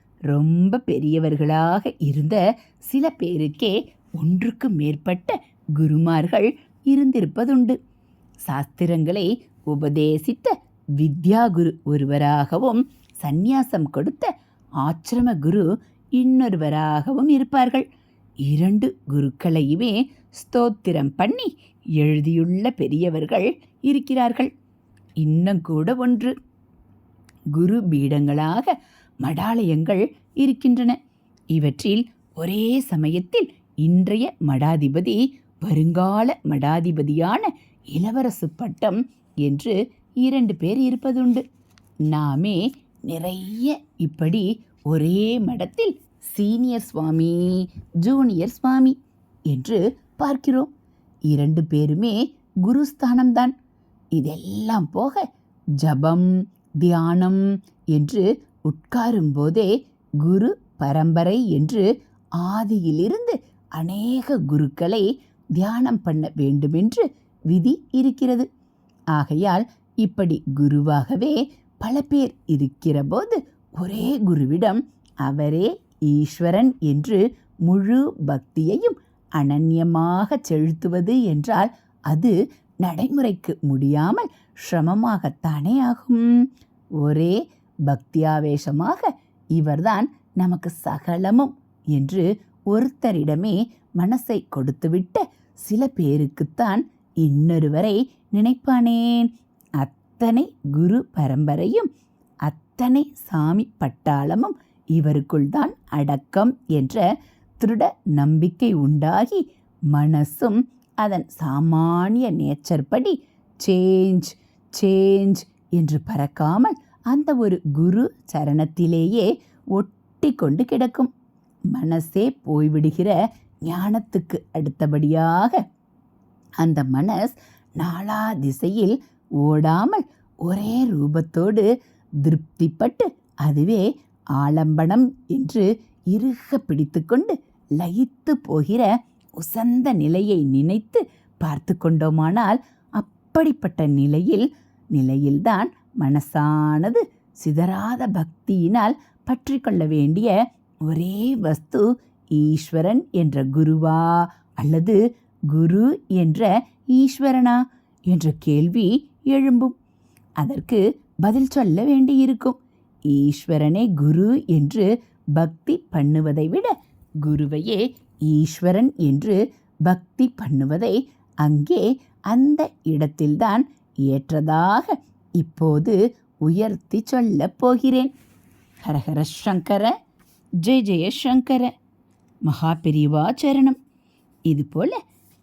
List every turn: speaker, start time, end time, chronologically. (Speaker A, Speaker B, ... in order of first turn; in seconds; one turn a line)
Speaker A: 0.3-7.8
Speaker A: 8.4-17.8
Speaker A: 18.4-24.5
Speaker A: 25.2-26.3
Speaker A: 27.5-31.0
Speaker A: 31.5-41.4
Speaker A: 42.1-49.0
Speaker A: 49.5-50.7
Speaker A: 51.3-53.5
Speaker A: 54.1-55.2
Speaker A: 55.8-56.3
Speaker A: 56.8-59.7
Speaker A: 60.2-61.9
Speaker A: 62.4-68.5
Speaker A: 69.1-86.2
Speaker A: 87.0-101.9
Speaker A: 102.4-107.0
Speaker A: 107.6-121.1
Speaker A: 121.7-123.2
Speaker A: 123.7-125.6
Speaker A: 126.6-131.7
Speaker A: 132.2-133.8
Speaker A: 134.4-150.3
Speaker A: 150.9-157.6
Speaker A: 158.1-159.7
Speaker A: 160.4-162.6
Speaker A: 163.1-178.1
Speaker A: 178.8-179.9
Speaker A: 180.6-181.7
Speaker A: 182.4-183.8
Speaker A: 184.5-185.0